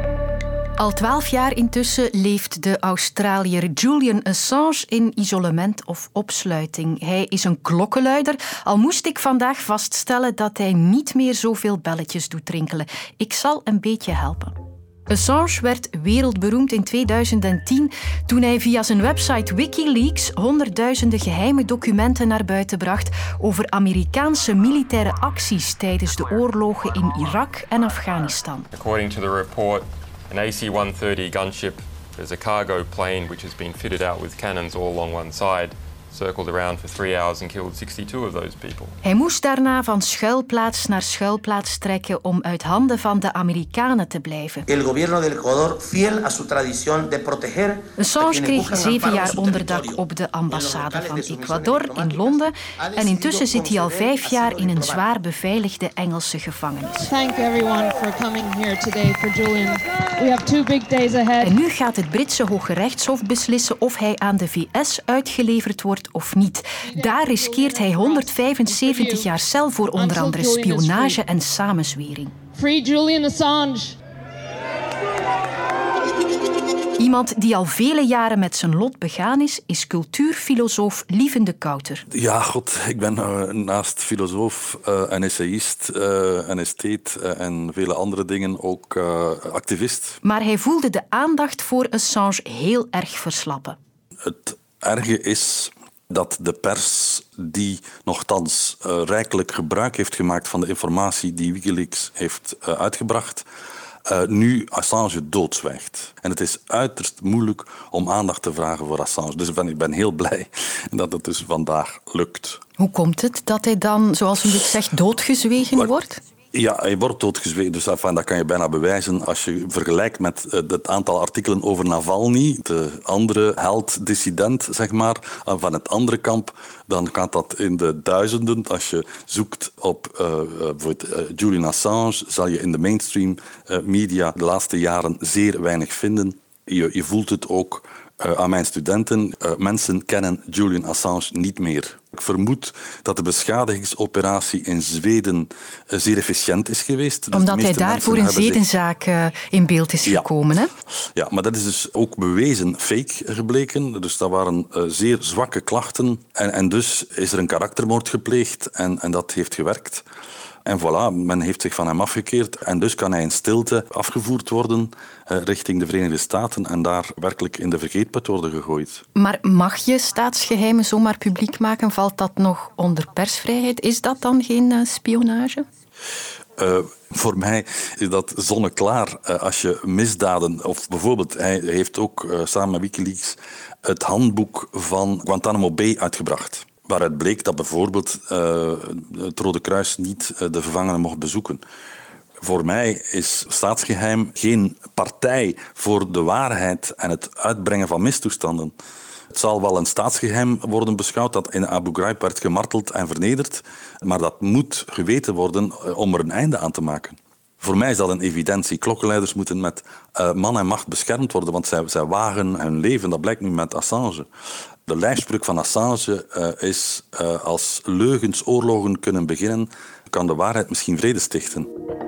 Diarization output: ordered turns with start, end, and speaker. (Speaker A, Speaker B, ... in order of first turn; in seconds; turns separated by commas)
Speaker A: 0.8-14.5, Speaker A: 15.1-28.7, Speaker B: 28.7-39.0, Speaker A: 39.0-44.7, Speaker C: 44.7-55.1, Speaker A: 48.0-57.1, Speaker D: 57.1-61.6, Speaker A: 61.4-72.3, Speaker D: 66.8-69.3, Speaker D: 69.9-71.2, Speaker D: 72.5-74.0, Speaker A: 77.0-82.0, Speaker E: 82.1-90.2, Speaker A: 90.2-93.8, Speaker E: 94.2-103.5, Speaker E: 104.1-112.6, Speaker A: 112.8-116.2, Speaker E: 116.5-148.7, Speaker A: 147.3-150.7, Speaker E: 151.2-160.0, Speaker E: 160.7-169.0, Speaker A: 169.2-175.7, Speaker E: 176.6-191.6, Speaker E: 192.4-198.7, Speaker E: 199.3-214.3, Speaker E: 214.9-221.7